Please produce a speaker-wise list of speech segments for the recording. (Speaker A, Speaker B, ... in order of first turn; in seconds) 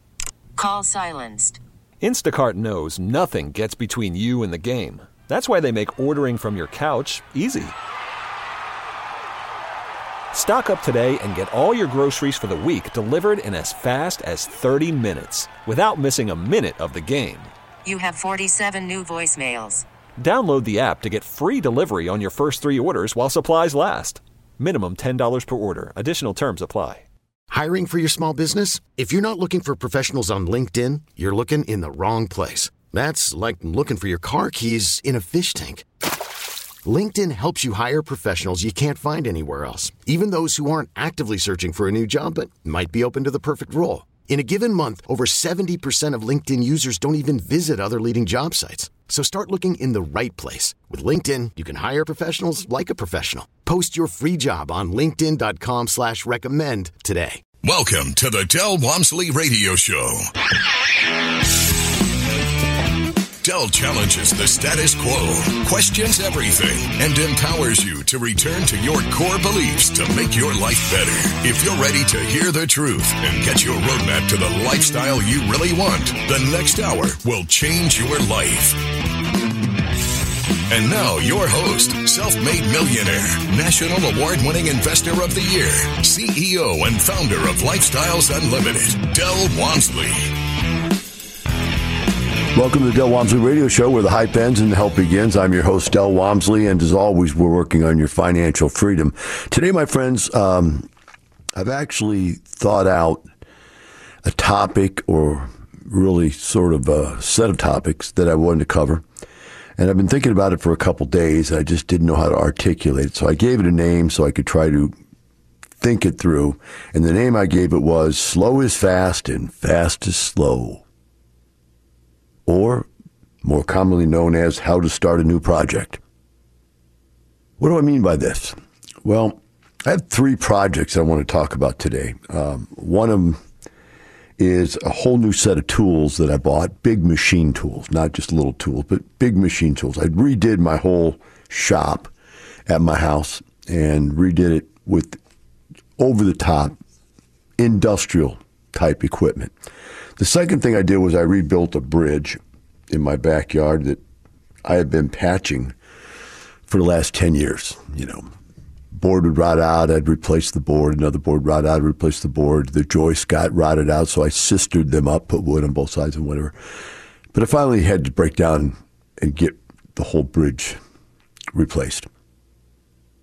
Speaker A: 0.6-1.6, 17.9-19.9
Speaker B: 2.0-7.8, 10.3-17.5, 20.2-27.1
Speaker C: 27.5-35.9, 36.9-57.4
Speaker D: 57.6-60.3, 63.4-78.8, 80.7-90.3
Speaker E: 92.5-100.9, 101.5-103.2, 104.2-109.0, 109.8-114.9, 115.8-120.8, 122.5-122.9, 123.4-126.0, 127.6-133.4, 134.4-142.1, 142.7-145.2, 146.0-146.8, 147.6-149.5, 150.2-154.0, 154.6-155.8, 156.7-158.3, 158.9-166.5, 167.3-170.8, 171.5-172.1